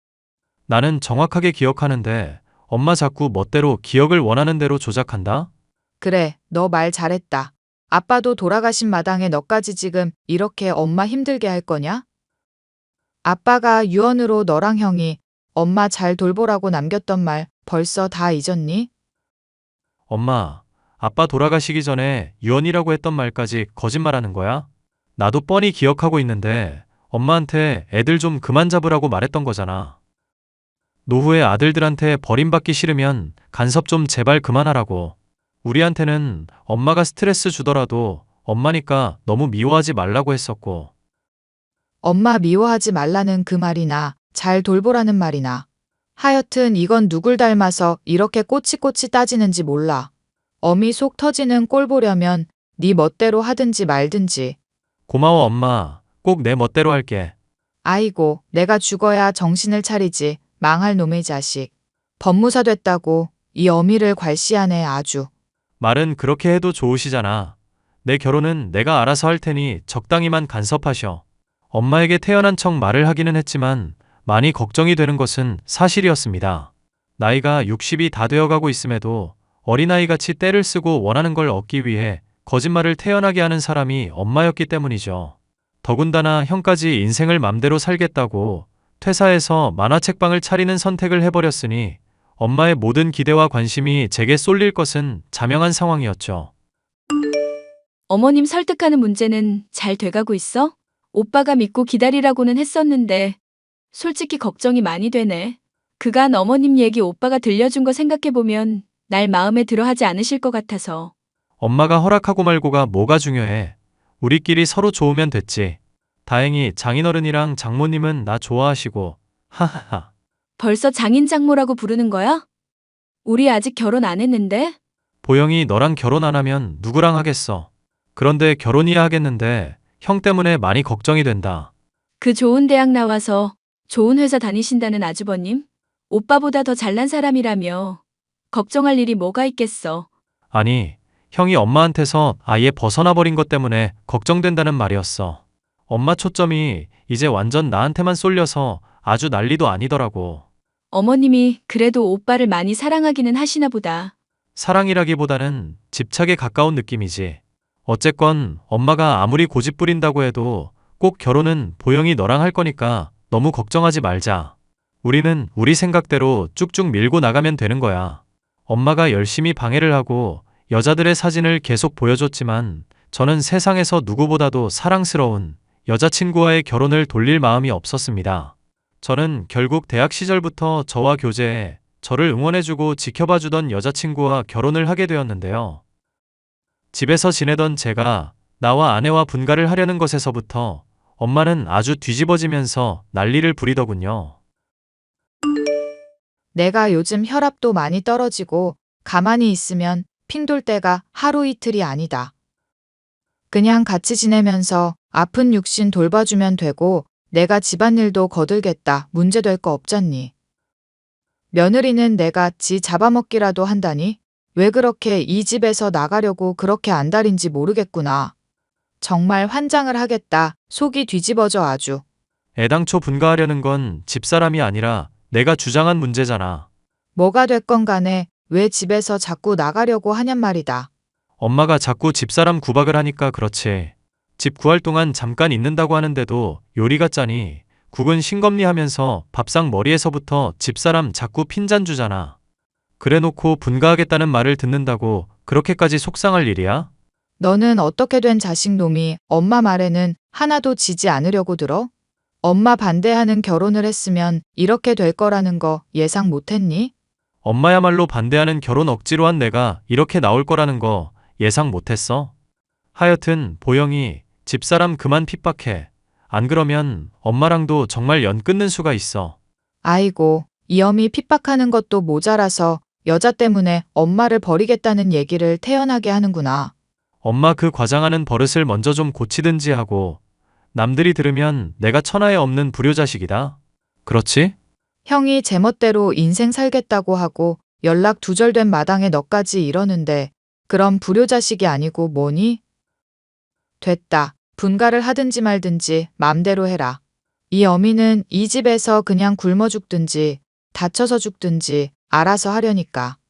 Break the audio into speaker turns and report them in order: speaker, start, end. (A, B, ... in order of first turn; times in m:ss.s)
0:00.7-0:05.5 A
0:06.0-0:12.0 B
0:13.2-0:18.9 B
0:20.1-0:30.0 A
0:31.1-0:40.9 A
0:42.0-0:45.6 B
0:46.2-0:50.1 B
0:50.6-0:54.6 B
0:55.1-0:57.3 A
0:57.8-1:01.7 B
1:02.2-1:05.3 B
1:05.8-1:36.5 A
1:38.1-1:43.4 C
1:43.9-1:51.1 C
1:51.6-2:00.1 A
2:00.6-2:02.4 C
2:03.2-2:04.8 C
2:05.2-2:11.7 A
2:12.2-2:18.0 C
2:18.5-2:20.1 C
2:20.5-2:30.4 A
2:30.9-2:34.1 C
2:34.6-3:05.8 A
3:06.9-3:14.3 A
3:16.5-3:22.3 B
3:23.5-3:30.3 B
3:31.5-3:38.3 B
3:39.0-3:42.0 B
3:42.6-3:46.7 A
3:47.2-3:50.9 B
3:51.4-4:02.4 A
4:03.0-4:06.9 A
4:07.4-4:11.9 B
4:12.4-4:16.9 B
4:17.4-4:22.3 A
4:23.0-4:29.4 A
4:29.8-4:36.7 B
4:37.2-4:40.2 A
4:40.7-4:44.5 A
4:45.1-4:52.6 B
4:53.8-4:57.0 B
4:57.5-5:03.2 B